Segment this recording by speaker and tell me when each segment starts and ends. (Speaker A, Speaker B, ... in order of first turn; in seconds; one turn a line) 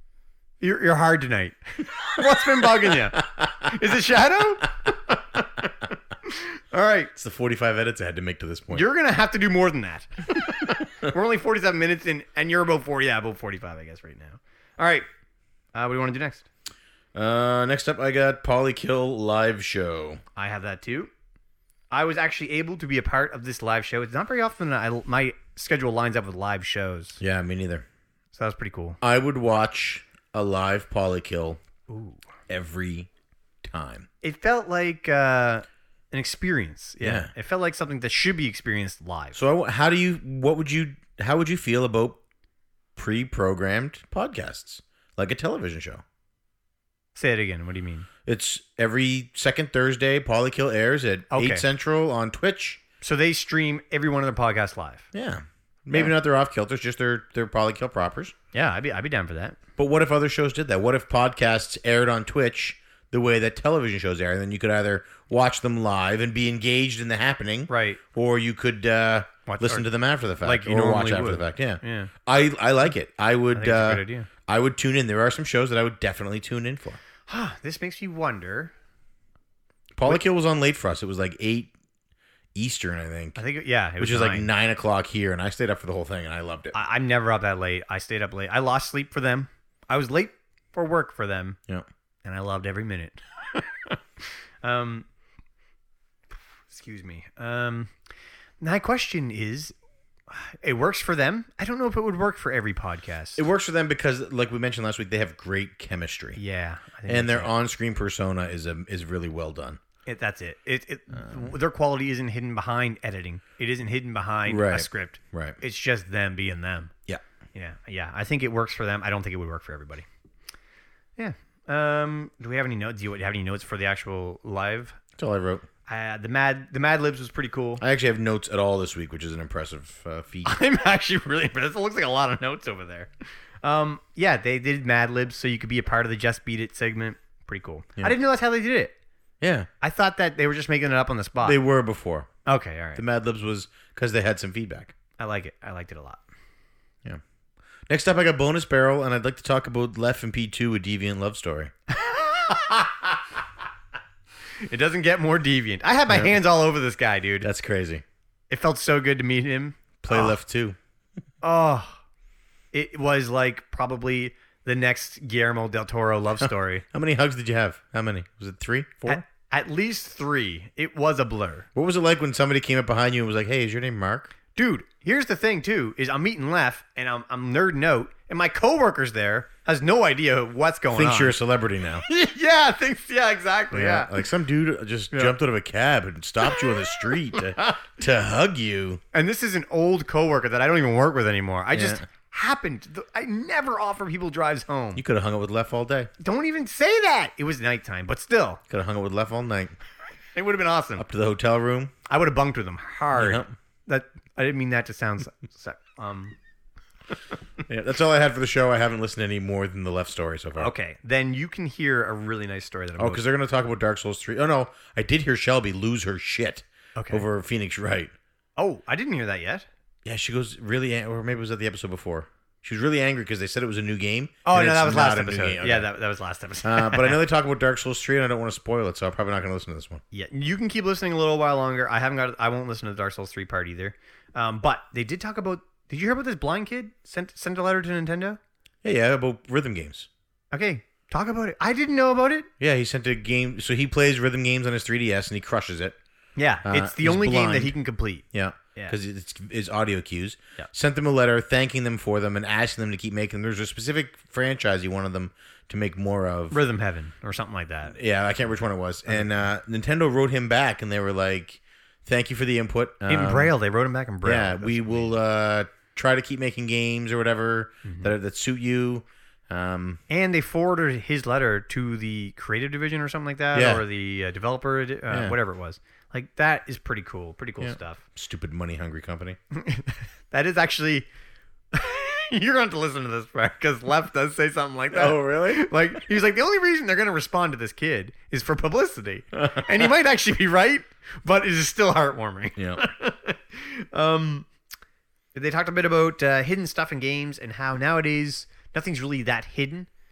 Speaker A: 0.6-5.7
Speaker A: 6.2-7.1
Speaker B: 7.2-8.9
Speaker A: 8.7-15.1
Speaker A: 15.7-16.5
Speaker B: 17.1-20.2
Speaker A: 20.4-21.1
Speaker A: 21.9-27.2
Speaker B: 27.2-27.9
Speaker A: 28.3-29.0
Speaker B: 29.0-31.6
Speaker A: 31.9-32.2
Speaker B: 32.5-33.1
Speaker B: 33.6-34.1
Speaker A: 34.2-39.4
Speaker B: 37.0-37.3
Speaker B: 39.4-42.2
Speaker B: 43.0-46.0
Speaker A: 47.1-48.1
Speaker B: 48.3-52.8
Speaker A: 51.3-51.7
Speaker A: 53.0-55.1
Speaker B: 55.1-58.4
Speaker A: 58.5-59.6
Speaker B: 59.8-77.0
Speaker A: 67.7-68.0
Speaker A: 69.5-69.9
Speaker A: 70.4-72.1
Speaker A: 73.5-74.3
Speaker A: 77.3-78.7
Speaker B: 79.9-81.7
Speaker B: 82.5-83.4
Speaker A: 83.4-84.5
Speaker B: 84.0-86.8
Speaker A: 86.7-91.6
Speaker A: 92.2-95.1
Speaker A: 96.7-97.9
Speaker A: 98.6-99.8
Speaker A: 100.3-103.4
Speaker B: 103.4-106.4
Speaker A: 106.4-107.5
Speaker B: 107.1-109.8
Speaker A: 110.1-116.9
Speaker B: 111.1-111.5
Speaker B: 114.5-115.6
Speaker A: 117.5-120.1
Speaker A: 121.2-125.0
Speaker B: 125.2-125.7
Speaker A: 125.9-127.8
Speaker B: 127.8-130.6
Speaker A: 130.4-133.1
Speaker A: 133.6-138.9
Speaker B: 139.4-139.7
Speaker A: 139.8-141.6
Speaker B: 141.4-142.3
Speaker A: 142.5-143.0
Speaker B: 143.0-144.9
Speaker A: 145.2-146.2
Speaker B: 147.9-151.7
Speaker A: 151.9-153.2
Speaker A: 154.6-157.5
Speaker B: 156.1-156.3
Speaker B: 157.4-158.0
Speaker A: 158.5-160.4
Speaker B: 160.0-160.8
Speaker A: 161.4-162.0
Speaker A: 162.7-166.8
Speaker B: 166.4-169.2
Speaker A: 169.1-171.7
Speaker B: 171.8-174.3
Speaker A: 174.6-181.3
Speaker B: 180.9-182.1
Speaker A: 182.0-184.2
Speaker B: 183.7-189.0
Speaker A: 186.5-187.7
Speaker A: 189.1-195.0
Speaker B: 191.7-192.1
Speaker B: 194.9-196.1
Speaker A: 196.2-198.6
Speaker B: 198.7-199.8
Speaker A: 200.3-201.0
Speaker B: 201.0-201.9
Speaker A: 202.1-206.4
Speaker B: 203.2-203.5
Speaker B: 207.7-210.7
Speaker A: 210.6-213.2
Speaker B: 213.0-218.1
Speaker A: 217.0-217.2
Speaker A: 218.6-219.7
Speaker B: 220.1-225.9
Speaker A: 224.5-227.2
Speaker B: 226.6-230.0
Speaker A: 230.1-238.4
Speaker B: 238.8-240.1
Speaker A: 240.5-242.5
Speaker B: 242.6-246.0
Speaker A: 246.4-249.0
Speaker B: 246.6-247.8
Speaker B: 248.3-256.6
Speaker A: 256.5-258.0
Speaker B: 257.9-263.5
Speaker A: 263.1-265.2
Speaker B: 264.2-270.0
Speaker A: 267.8-268.1
Speaker A: 270.1-278.0
Speaker B: 273.5-273.8
Speaker B: 275.1-275.4
Speaker B: 277.6-279.4
Speaker A: 279.5-281.1
Speaker A: 281.7-294.5
Speaker B: 284.9-285.7
Speaker B: 289.4-289.8
Speaker B: 292.6-292.8
Speaker A: 295.3-299.9